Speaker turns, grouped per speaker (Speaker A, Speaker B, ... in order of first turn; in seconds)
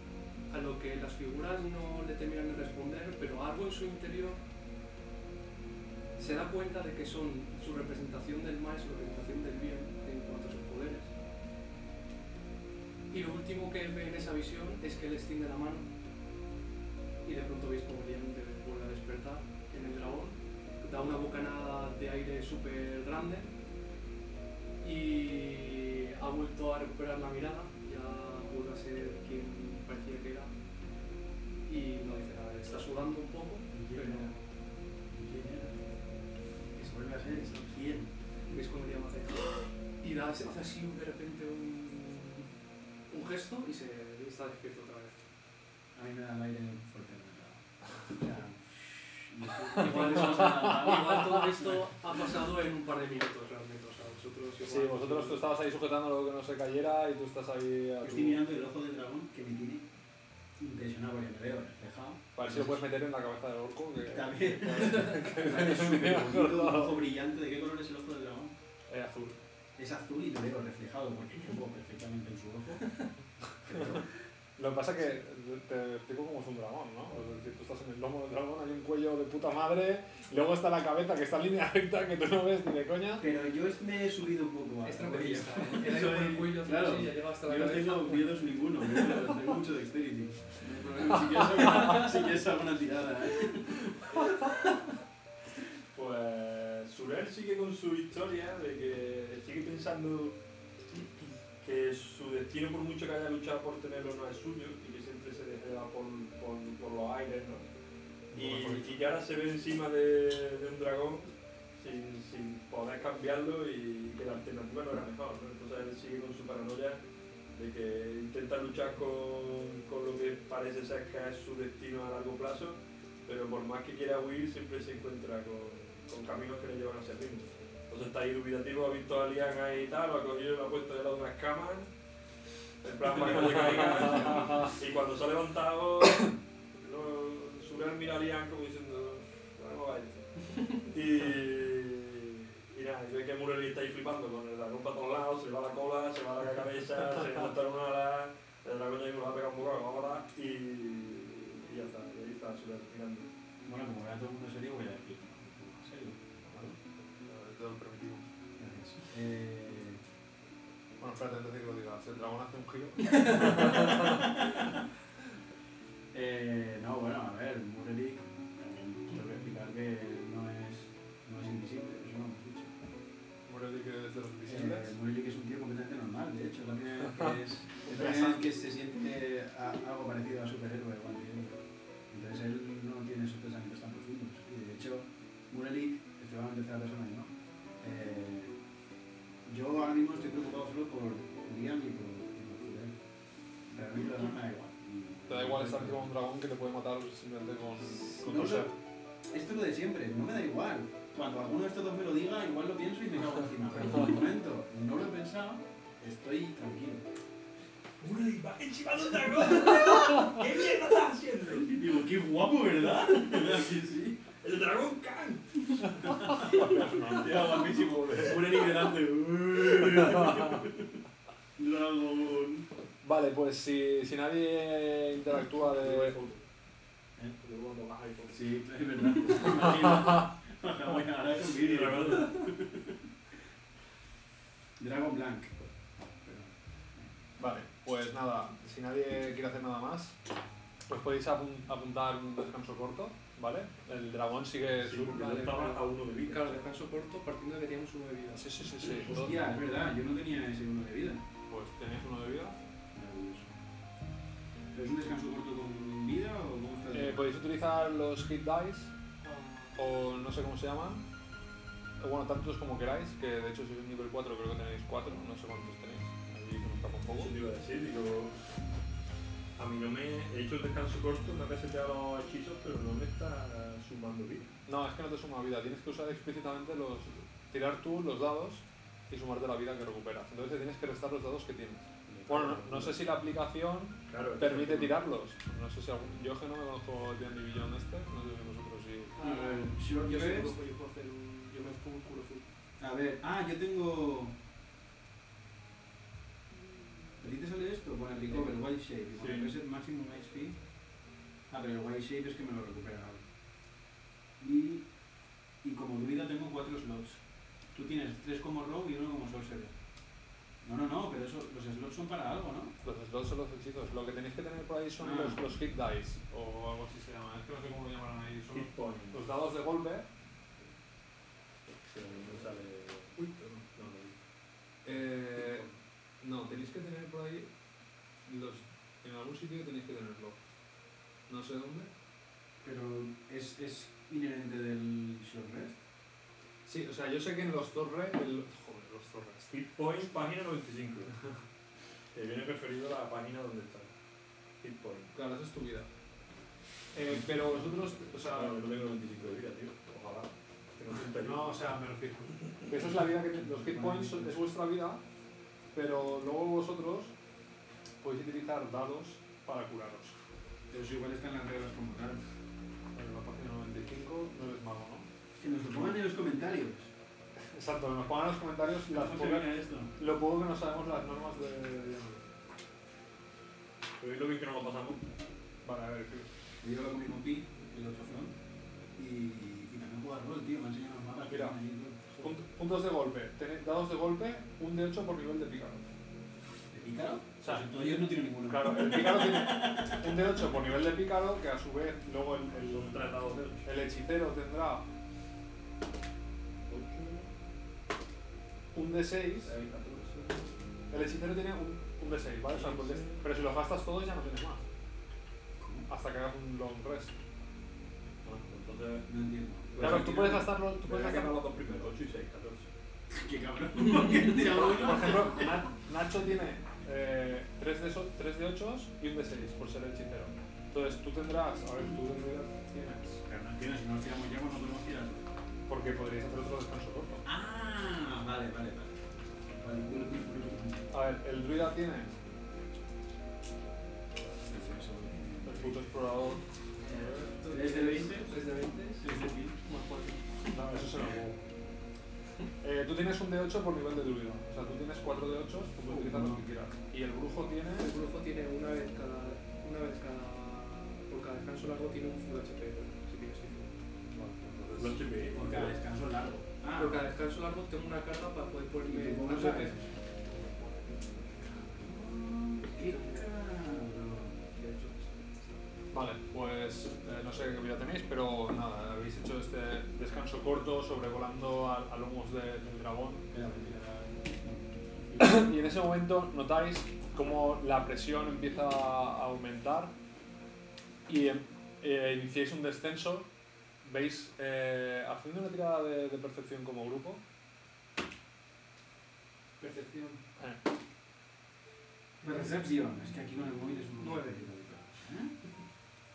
Speaker A: 0.5-4.4, 6.2-11.1, 13.1-15.9, 17.2-23.5, 24.8-30.5, 31.7-34.5, 38.5-42.5, 43.1-45.2, 49.8-55.4, 84.8-88.3, 91.3-92.1, 245.5-248.5, 259.2-259.7, 289.2-292.4, 436.9-440.6, 447.8-453.8, 456.8-459.8, 460.3-461.1, 462.6-463.3, 464.4-465.6, 492.2-492.6, 494.0-494.5
Speaker B: 33.7-34.3, 35.1-35.8, 36.8-38.1, 45.9-51.8, 58.0-59.9, 60.6-62.8, 64.0-68.5, 69.8-73.0, 73.7-74.1, 83.2-94.2, 153.7-156.7, 158.6-160.0, 163.9-164.2, 166.1-172.8, 174.5-188.5, 189.4-193.0, 193.7-196.1, 197.9-198.7, 199.3-207.1, 211.5-214.2, 216.0-220.9, 221.6-222.7, 228.3-233.0, 234.8-235.6, 236.2-237.1, 248.8-251.2, 252.9-253.5, 254.7-257.2, 289.2-290.5, 292.8-294.4, 297.2-300.6, 301.5-303.2, 304.4-304.9, 305.6-307.2, 307.7-309.7, 310.6-312.8, 315.0-315.4, 332.6-335.8, 353.4-354.3, 360.7-362.2, 365.4-366.9, 368.9-369.9, 376.6-378.4, 379.0-382.3, 386.7-390.0, 405.6-405.9, 409.1-410.4, 413.1-415.6, 423.3-425.3, 427.2-429.0, 429.5-430.9, 434.4-435.9, 437.5-438.4, 439.0-439.6, 445.9-446.4, 455.3-457.1, 458.8-459.9, 461.4-464.3, 473.3-475.5, 489.6-490.2, 492.2-495.4
Speaker C: 49.8-51.1, 54.6-58.4, 62.4-67.0, 68.9-69.4, 74.6-83.2, 108.3-109.0, 133.3-134.7, 156.5-158.3, 161.0-164.2, 173.5-174.9, 177.9-178.4, 195.3-198.7, 216.1-217.4, 223.0-226.2, 237.4-240.2, 240.9-245.7, 248.3-249.5, 251.5-252.6, 256.9-258.9, 259.8-261.1, 262.0-267.3, 274.7-289.2, 312.8-320.1, 324.9-325.7, 326.2-327.5, 328.2-330.4, 331.3-331.9, 336.7-339.5, 345.1-345.9, 346.9-348.6, 351.1-355.0, 355.7-357.1, 358.0-360.2, 362.9-365.1, 367.5-372.2, 375.6-376.3, 381.3-381.6, 382.2-385.9, 387.4-387.7, 388.4-393.0, 393.6-394.9, 398.7-399.5, 400.9-404.6, 405.9-407.2, 409.8-411.4, 414.6-423.2, 425.7-427.2, 430.9-432.1, 435.4-436.4, 440.5-441.4, 442.6-447.9, 454.1-455.1, 465.9-473.4, 475.2-479.9, 481.1-483.3, 483.8-487.2, 490.4-490.6
Speaker D: 95.9-100.4, 101.6-107.7, 108.3-131.9, 132.8-153.3, 208.0-211.8, 213.0-213.5, 214.4-218.9, 225.8-226.4, 227.4-228.5, 229.4-229.6, 231.4-232.5, 244.8-246.6, 267.2-268.3, 269.6-274.5, 282.1-282.9, 284.1-285.0, 299.2-299.5, 318.5-319.2, 321.9-324.2, 339.5-341.1, 342.1-343.9, 344.6-345.1, 348.3-351.7, 374.0-375.0, 392.6-393.7, 396.6-397.3, 399.4-400.5, 402.5-403.2, 408.2-409.1, 409.7-412.7, 436.9-437.3, 454.8-455.8